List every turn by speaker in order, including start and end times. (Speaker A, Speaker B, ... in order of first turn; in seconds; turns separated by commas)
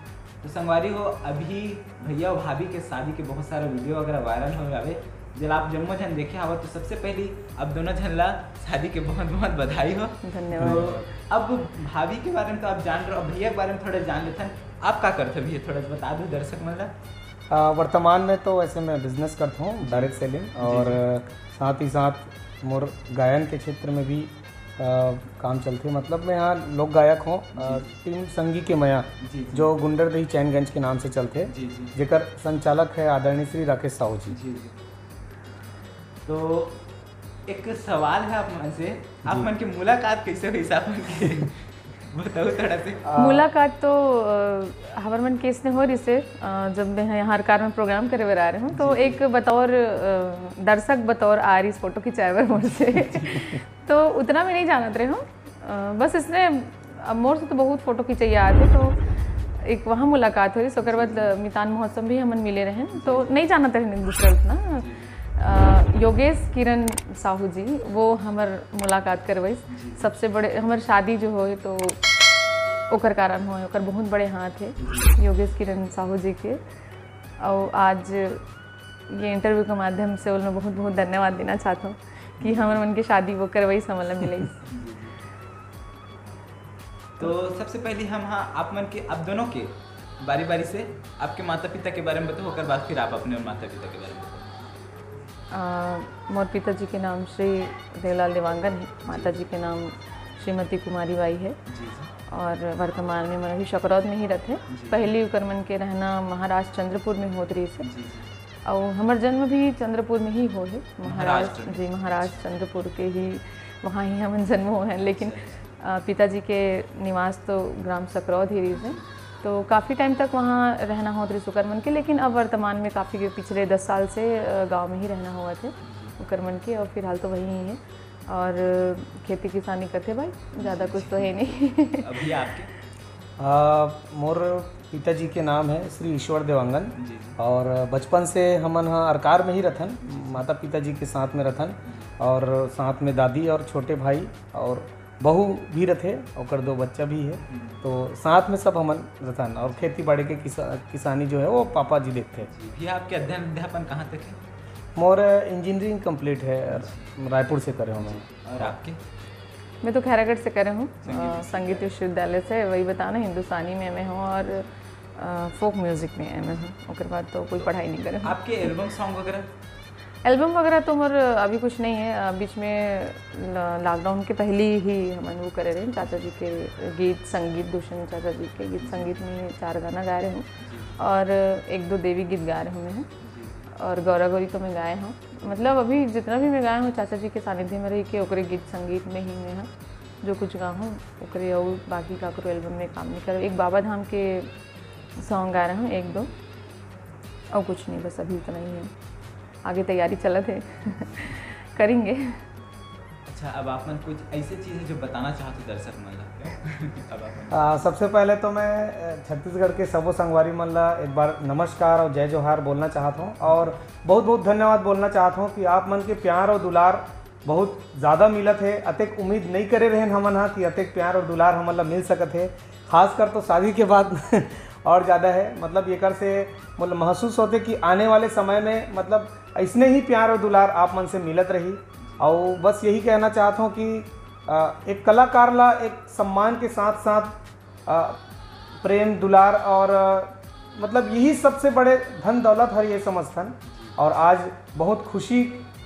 Speaker A: 0.4-16.9, Speaker B: 10.2-11.0, Speaker C: 10.5-11.1, Speaker C: 17.5-34.4, Speaker A: 19.8-21.0, Speaker A: 27.5-27.9, Speaker A: 29.2-29.7, Speaker A: 31.5-31.9, Speaker A: 34.3-34.7, Speaker A: 36.2-36.8, Speaker A: 37.5-43.1, Speaker C: 39.2-39.5, Speaker C: 43.1-43.5, Speaker B: 43.1-59.0, Speaker A: 48.7-49.2, Speaker A: 52.6-53.5, Speaker B: 59.6-72.0, Speaker A: 60.8-61.3, Speaker A: 63.0-63.3, Speaker A: 64.8-65.1, Speaker A: 69.7-70.0, Speaker B: 72.9-76.6, Speaker A: 74.8-75.1, Speaker B: 77.4-78.4, Speaker B: 79.1-84.6, Speaker A: 82.4-82.8, Speaker A: 84.6-85.1, Speaker A: 87.2-94.6, Speaker B: 95.5-101.6, Speaker A: 99.1-99.3, Speaker A: 101.7-102.1, Speaker B: 102.3-107.9, Speaker A: 104.7-105.1, Speaker A: 107.8-108.3, Speaker B: 108.6-132.3, Speaker A: 111.0-112.4, Speaker A: 115.2-115.6, Speaker A: 118.7-119.0, Speaker A: 125.8-126.2, Speaker A: 130.6-132.7, Speaker C: 133.4-152.5, Speaker A: 136.9-137.4, Speaker A: 140.0-140.4, Speaker A: 147.4-147.8, Speaker A: 152.4-154.4, Speaker C: 154.9-158.7, Speaker A: 156.7-157.1, Speaker A: 158.0-159.0, Speaker B: 159.8-168.7, Speaker A: 161.0-161.9, Speaker A: 168.2-169.5, Speaker B: 170.2-183.1, Speaker A: 178.8-179.2, Speaker A: 180.6-181.0, Speaker A: 183.2-183.7, Speaker B: 183.8-189.7, Speaker B: 190.2-194.5, Speaker B: 195.2-196.3, Speaker B: 197.5-198.9, Speaker B: 199.6-202.4, Speaker A: 203.2-207.8, Speaker C: 207.5-238.2, Speaker C: 238.8-245.7, Speaker A: 243.7-243.9